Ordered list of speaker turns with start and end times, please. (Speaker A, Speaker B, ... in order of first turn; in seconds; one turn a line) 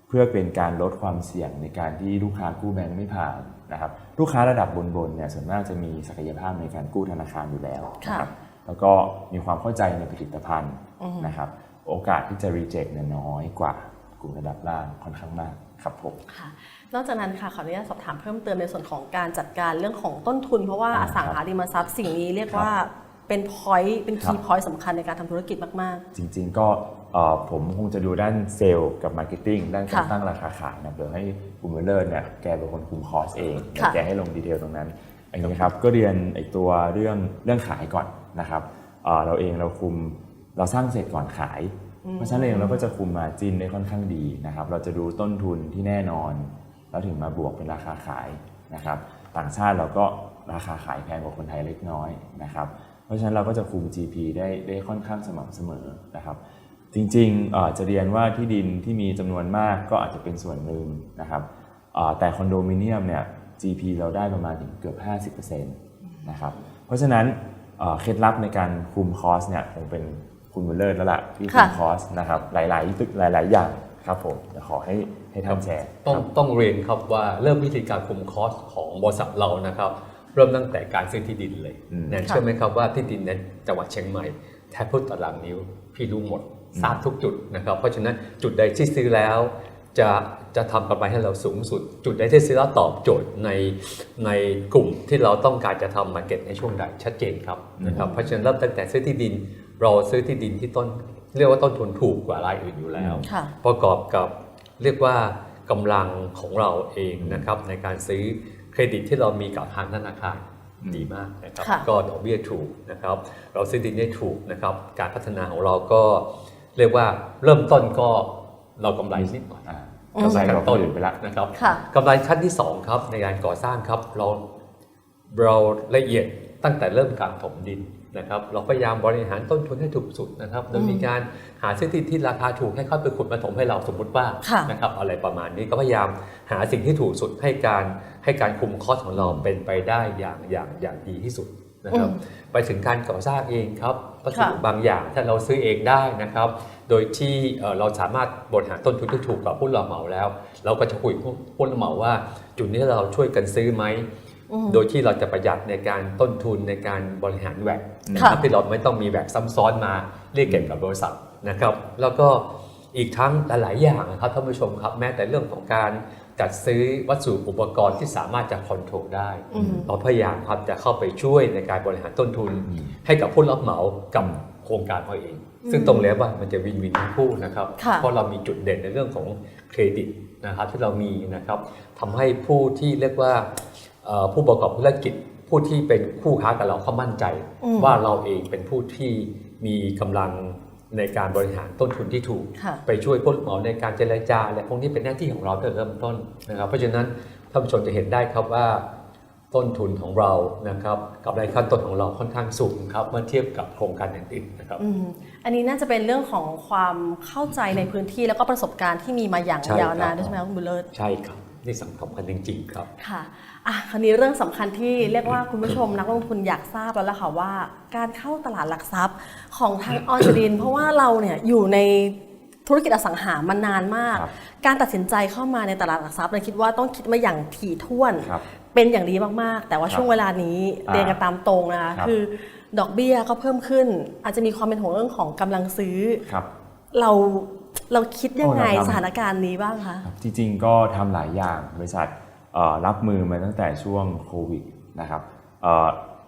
Speaker A: 0.1-16.2
Speaker B: 8.0-8.3
Speaker B: 11.0-11.3
Speaker B: 16.3-26.1
Speaker A: 20.9-21.4
Speaker A: 26.1-56.4
Speaker B: 29.9-30.1
Speaker B: 33.8-34.0
Speaker B: 42.0-42.9
Speaker A: 56.9-76.3
Speaker B: 66.1-66.6
Speaker B: 71.5-71.8
Speaker C: 75.5-119.7
Speaker A: 81.9-82.2
Speaker A: 86.7-87.0
Speaker A: 97.8-98.1
Speaker B: 98.0-98.3
Speaker A: 103.0-103.3
Speaker B: 103.3-103.5
Speaker A: 107.2-107.5
Speaker A: 110.8-111.1
Speaker B: 111.6-111.9
Speaker A: 119.1-121.2
Speaker B: 120.1-120.6
Speaker C: 120.2-124.4
Speaker B: 121.5-121.8
Speaker C: 125.3-154.1
Speaker B: 130.7-131.1
Speaker B: 134.4-134.7
Speaker A: 139.2-139.5
Speaker B: 141.9-142.2
Speaker B: 144.3-144.6
Speaker B: 154.5-154.8
Speaker C: 154.7-198.8
Speaker A: 158.1-158.4
Speaker B: 158.2-158.4
Speaker A: 169.5-169.9
Speaker B: 169.5-169.9
Speaker A: 172.7-172.9
Speaker B: 175.6-176.1
Speaker B: 177.8-178.1
Speaker B: 187.6-188.0
Speaker C: 199.5-204.8
Speaker B: 204.8-210.9
Speaker C: 209.6-210.4
Speaker C: 210.9-212.9
Speaker B: 213.0-236.2
Speaker A: 228.2-228.4
Speaker A: 230.9-231.2
Speaker A: 236.2-236.5
Speaker B: 236.9-240.1
Speaker A: 238.4-239.0
Speaker A: 240.0-246.0